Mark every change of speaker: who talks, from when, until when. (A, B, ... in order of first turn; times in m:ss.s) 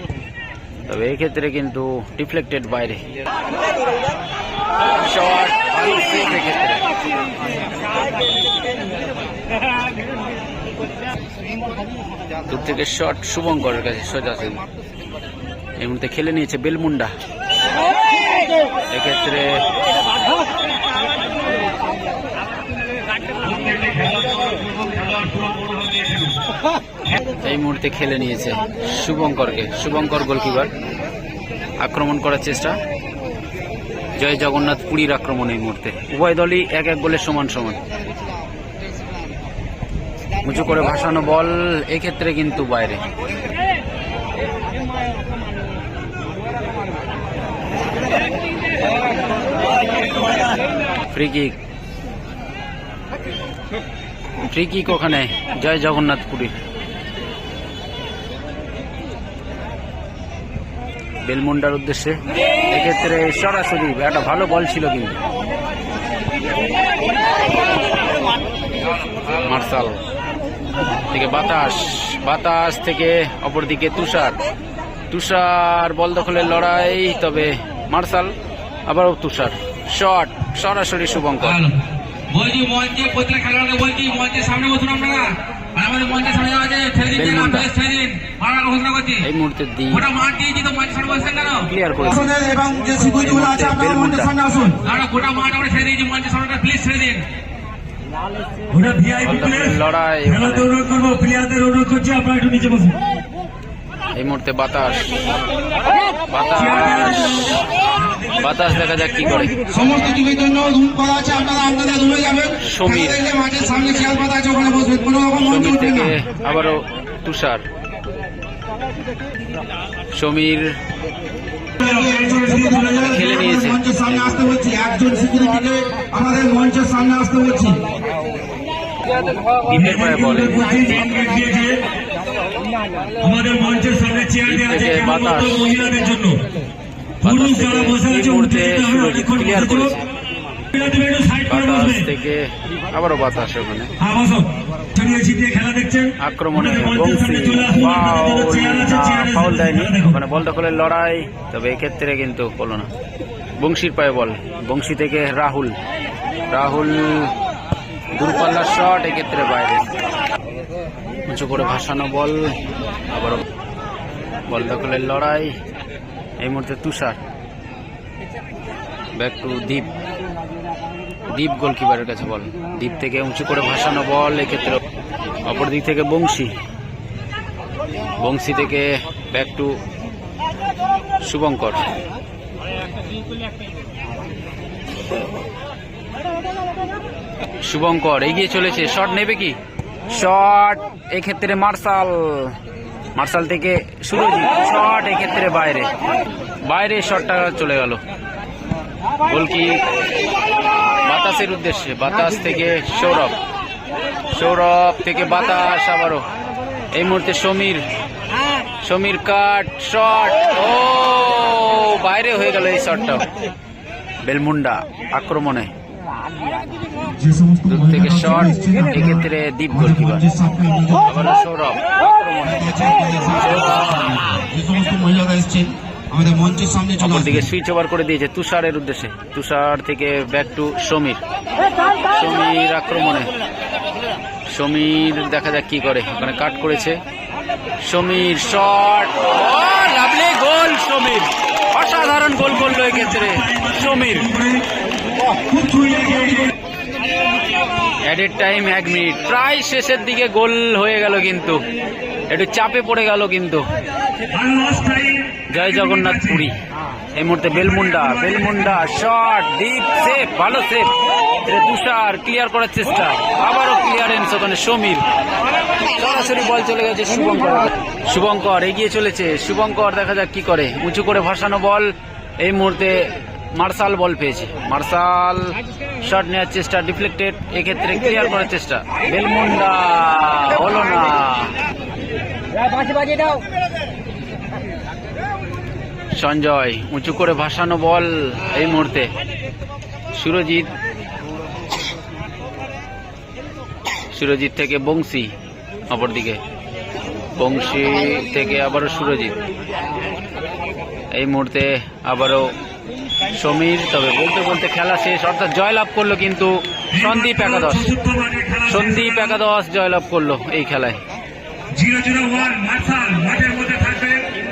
0:00.9-0:03.0 A
0:04.9-0:06.8 A
0:12.5-0:14.6 A
0:15.8-0:17.1 A
0:18.9-0:19.6 A
0:23.4-0:26.4 B
0:27.4-0:30.7 A
0:31.8-0:32.8 A
0:34.2-0:37.8 A
0:40.4-0:43.0 A
0:51.1-0:51.6 A
0:54.4-0:56.5 A
1:01.2-1:05.2 A
1:09.3-1:10.0 A
1:11.1-1:14.4 A
1:15.1-1:18.3 A
1:18.9-1:21.6 A
1:21.4-1:21.7 C
1:22.3-1:29.2 C
1:27.1-1:27.7 A
1:29.2-1:30.1 A
1:29.9-1:31.7 C
1:31.6-1:32.3 A
1:32.0-1:34.9 D
1:33.0-1:34.3 A
1:34.8-1:37.2 C
1:38.7-1:43.0 B
1:39.2-1:40.7 A
1:44.1-1:45.1 A
1:46.3-1:47.6 A
1:46.5-1:49.8 B
1:48.4-1:49.7 A
1:49.7-1:56.1 D
1:52.6-1:53.2 A
1:55.4-1:57.6 A
2:00.1-2:00.8 A
2:01.8-2:03.2 B
2:01.8-2:07.9 D
2:02.9-2:04.5 A
2:09.7-2:10.8 A
2:09.7-2:11.8 B
2:13.2-2:16.4 B
2:14.4-2:15.6 A
2:17.2-2:20.0 A
2:17.2-2:20.0 B
2:20.7-2:22.0 B
2:21.5-2:23.9 A
2:24.0-2:30.2 B
2:26.2-2:32.9 A
2:33.6-2:35.8 A
2:36.5-2:37.3 A
2:38.1-2:39.9 A
2:41.2-2:43.4 A
2:44.4-2:45.5 A
2:46.4-2:47.2 A
2:49.2-2:49.9 A
2:51.3-2:54.8 A
2:55.4-2:56.5 A
2:58.2-2:59.8 A
3:01.2-3:01.9 A
3:07.6-3:12.6 A
3:13.2-3:15.9 A
3:16.6-3:18.0 A
3:19.2-3:19.8 A
3:21.0-3:23.4 A
3:24.3-3:26.3 A
3:26.9-3:27.8 A
3:28.8-3:33.3 A
3:34.2-3:35.7 A
3:37.1-3:41.2 D
3:37.7-3:40.2 A
3:41.0-3:42.8 A
3:42.4-3:47.5 D
3:43.4-3:44.3 A
3:47.0-3:51.2 A
3:52.1-3:53.3 A
3:54.5-3:57.0 A
3:57.8-4:04.3 A
4:02.4-4:04.6 B
4:05.5-4:06.5 B
4:08.0-4:11.6 A
4:12.3-4:13.6 A
4:14.3-4:16.4 B
4:15.5-4:16.6 A
4:17.1-4:25.0 A
4:17.9-4:18.5 B
4:25.9-4:41.6 A
4:46.1-4:49.1 A
4:50.1-4:50.7 A
4:54.1-4:55.3 A
4:55.9-4:56.4 A
4:57.4-4:59.4 A
5:01.1-5:02.5 A
5:03.3-5:07.9 A
5:06.9-5:09.4 B
5:08.7-5:11.0 A
5:11.7-5:14.3 B